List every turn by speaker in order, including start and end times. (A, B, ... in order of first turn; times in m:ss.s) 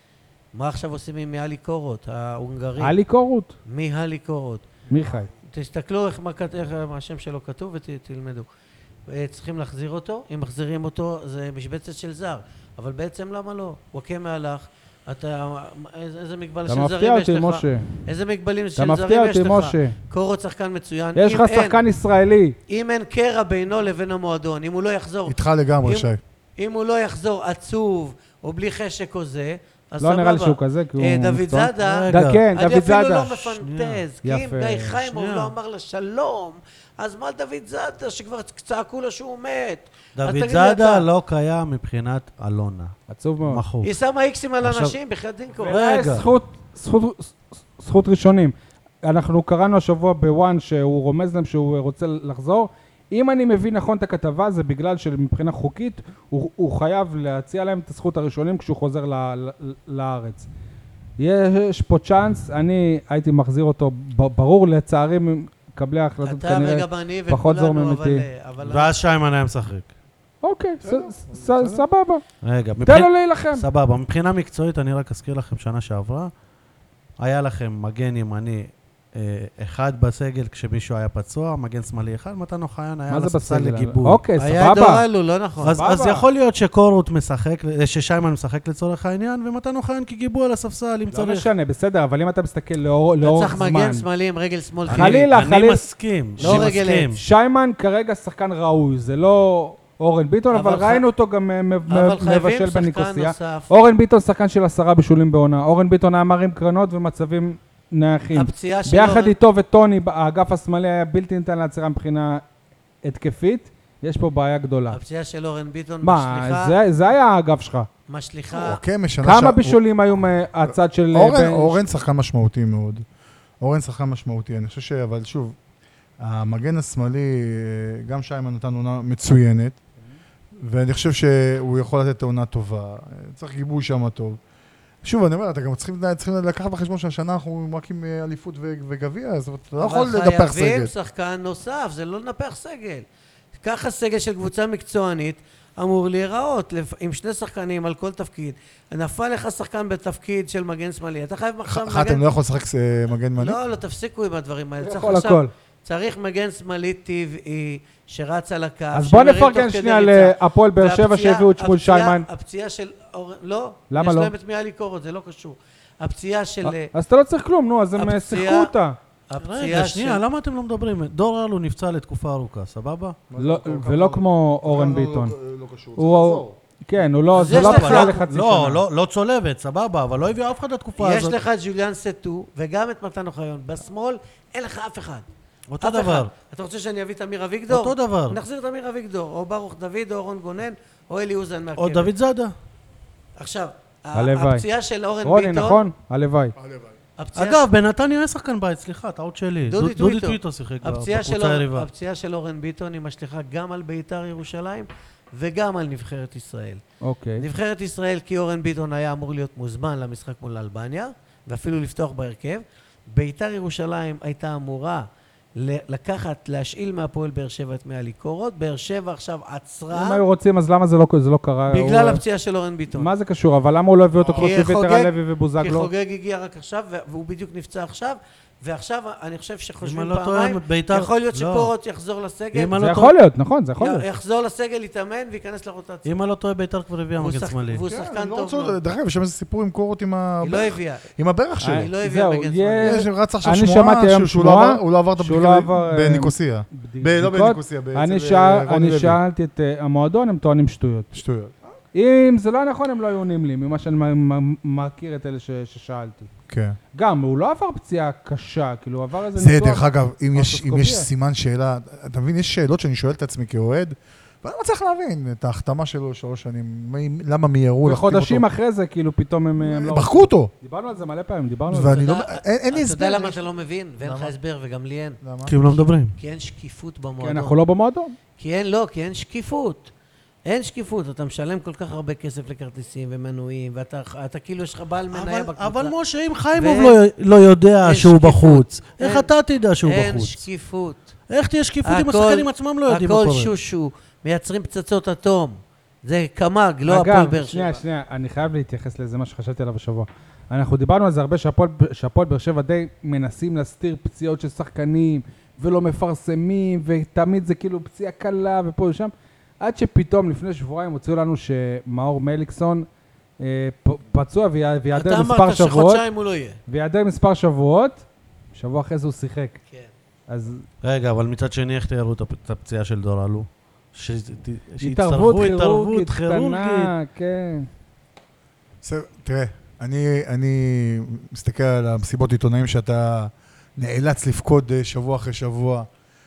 0:00.5-0:03.0 A
0:02.8-0:03.6 B
0:03.7-0:04.8 A
0:04.9-0:05.3 B
0:05.5-0:08.5 A
0:09.1-0:21.8 A
0:16.7-0:17.9 B
0:18.8-0:20.0 B
0:21.2-0:22.6 B
0:22.7-0:41.1 A
0:25.3-0:26.2 C
0:30.0-0:33.6 B
0:31.8-0:32.4 D
0:33.6-0:34.0 D
0:34.2-0:35.0 B
0:35.0-0:35.5 D
0:40.2-0:43.0 D
0:43.1-0:43.6 B
0:43.5-0:43.9 D
0:43.8-0:46.2 A
0:44.6-0:45.0 D
0:45.6-1:00.5 B
0:45.6-0:46.2 D
1:01.2-1:08.3 B
1:06.2-1:08.9 A
1:08.6-1:09.9 D
1:10.4-1:12.2 B
1:10.8-1:11.8 C
1:12.4-1:16.3 D
1:12.8-1:13.6 B
1:17.2-1:24.2 D
1:23.1-1:25.0 B
1:24.4-1:25.8 A
1:25.6-1:31.5 D
1:25.8-1:26.2 B
1:31.1-1:34.1 B
1:33.2-1:35.2 A
1:34.9-1:35.8 B
1:34.9-1:37.2 D
1:36.4-1:52.4 B
1:36.4-1:37.1 A
1:40.5-1:41.0 A
1:41.9-1:43.7 A
1:48.3-1:49.3 A
1:53.0-1:55.0 B
1:54.9-1:56.8 A
1:56.0-1:57.9 B
1:58.1-1:58.8 A
1:58.5-1:59.8 C
1:59.2-2:01.8 B
2:00.7-2:03.0 C
2:03.6-2:05.6 C
2:06.2-2:09.8 C
2:10.6-2:14.4 C
2:15.0-2:20.9 C
2:19.8-2:23.1 A
2:23.6-2:32.2 A
2:31.7-2:33.6 C
2:33.4-2:46.9 A
2:34.8-2:35.5 B
2:38.9-2:42.3 B
2:43.9-2:44.3 B
2:46.6-2:49.0 B
2:48.0-2:48.7 A
2:49.3-2:50.2 A
2:49.4-2:53.2 D
2:53.3-2:56.6 C
2:53.4-2:55.4 B
2:56.0-2:58.8 B
2:57.3-2:58.2 A
2:57.4-3:01.4 D
3:01.0-3:05.3 A
3:05.7-3:06.3 D
3:05.8-3:12.1 A
3:07.7-3:08.4 D
3:11.8-3:12.5 D
3:13.4-3:15.9 A
3:14.1-3:14.6 B
3:15.2-3:16.6 B
3:16.6-3:17.0 C
3:17.2-3:17.6 A
3:17.4-3:21.9 D
3:19.7-3:26.8 A
3:27.0-3:27.5 B
3:27.4-3:40.2 A
3:39.9-3:42.2 B
3:41.7-3:43.1 A
3:43.0-3:45.9 B
3:44.2-3:44.4 C
3:44.3-3:52.8 A
3:49.8-3:51.7 D
3:52.5-3:53.1 D
3:52.8-3:54.0 B
3:53.8-3:56.1 A
3:56.0-3:57.8 D
3:57.2-3:58.8 A
3:57.8-4:01.9 C
4:00.4-4:01.0 A
4:01.6-4:11.2 B
4:01.7-4:03.0 A
4:02.8-4:09.2 C
4:11.1-4:11.6 C
4:11.9-4:16.3 B
4:16.5-4:16.8 C
4:17.0-4:21.1 B
4:19.4-4:28.5 C
4:27.8-4:32.0 B
4:29.6-4:30.5 C
4:31.7-4:33.4 C
4:31.8-4:37.6 A
4:34.0-4:34.3 C
4:35.2-4:35.6 C
4:35.5-4:36.2 D
4:37.2-4:38.2 B
4:38.4-4:39.9 A
4:40.5-4:46.0 A
4:45.1-4:50.4 D
4:46.5-4:47.0 A
4:47.8-4:49.3 A
4:49.8-4:51.1 A
4:51.3-4:53.5 D
4:51.8-4:57.8 A
4:56.9-5:12.9 B
5:13.4-5:16.0 B
5:15.0-5:16.6 A
5:16.7-5:19.6 B
5:20.3-5:20.6 B
5:20.8-5:26.9 D
5:24.8-5:27.7 B
5:28.8-5:35.9 C